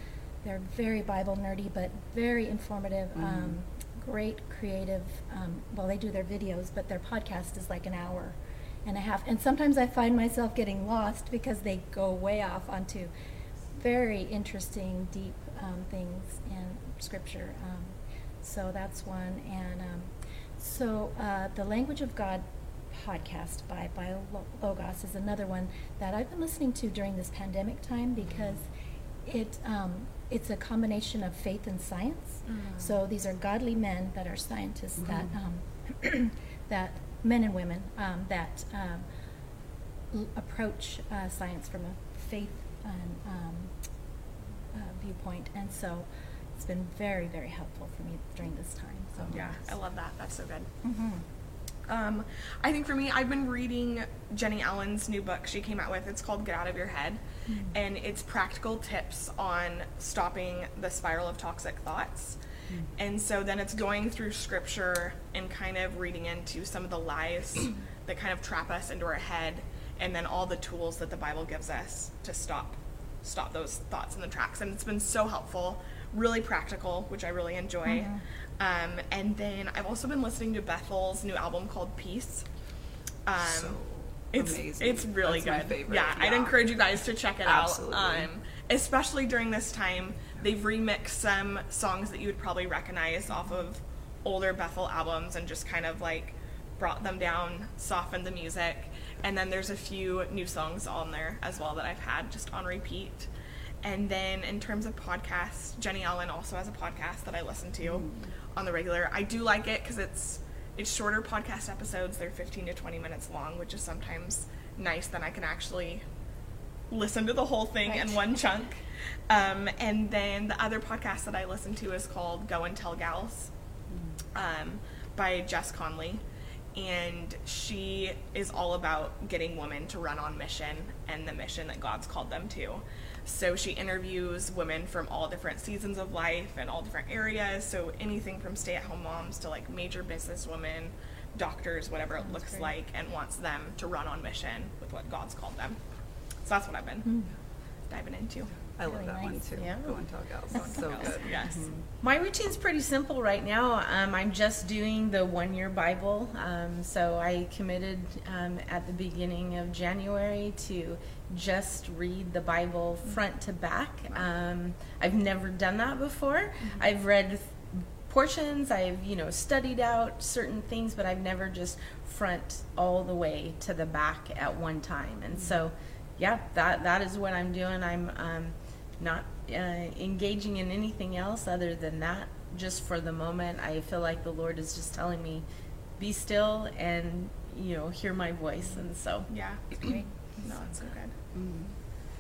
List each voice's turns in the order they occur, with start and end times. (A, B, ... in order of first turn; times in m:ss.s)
0:00.4-0:13.1 A
0:03.1-0:03.6 B
0:13.8-0:28.7 A
0:29.2-0:39.0 A
0:32.5-0:32.9 C
0:40.1-0:43.7 A
0:44.7-0:49.6 A
0:49.2-0:49.5 B
0:49.3-0:50.7 C
0:50.8-0:51.2 A
0:51.8-1:02.4 C
0:57.5-0:57.7 A
1:03.0-1:22.4 C
1:17.8-1:18.2 A
1:23.2-1:23.8 C
1:23.4-1:26.6 B
1:24.3-1:43.3 C
1:27.4-1:28.3 B
1:43.8-1:56.0 C
1:47.8-1:48.3 B
1:56.9-2:03.5 C
1:57.8-1:58.4 A
2:04.3-2:06.2 C
2:06.7-2:25.8 C
2:22.2-2:22.7 A
2:26.4-2:27.1 C
2:27.9-2:28.5 C
2:28.8-2:31.6 B
2:28.8-2:29.6 A
2:29.6-2:30.0 D
2:30.5-2:31.6 C
2:32.0-3:05.4 D
3:06.0-3:09.3 D
3:09.3-3:09.8 C
3:09.8-3:10.1 A
3:10.4-3:11.1 C
3:11.3-3:11.7 B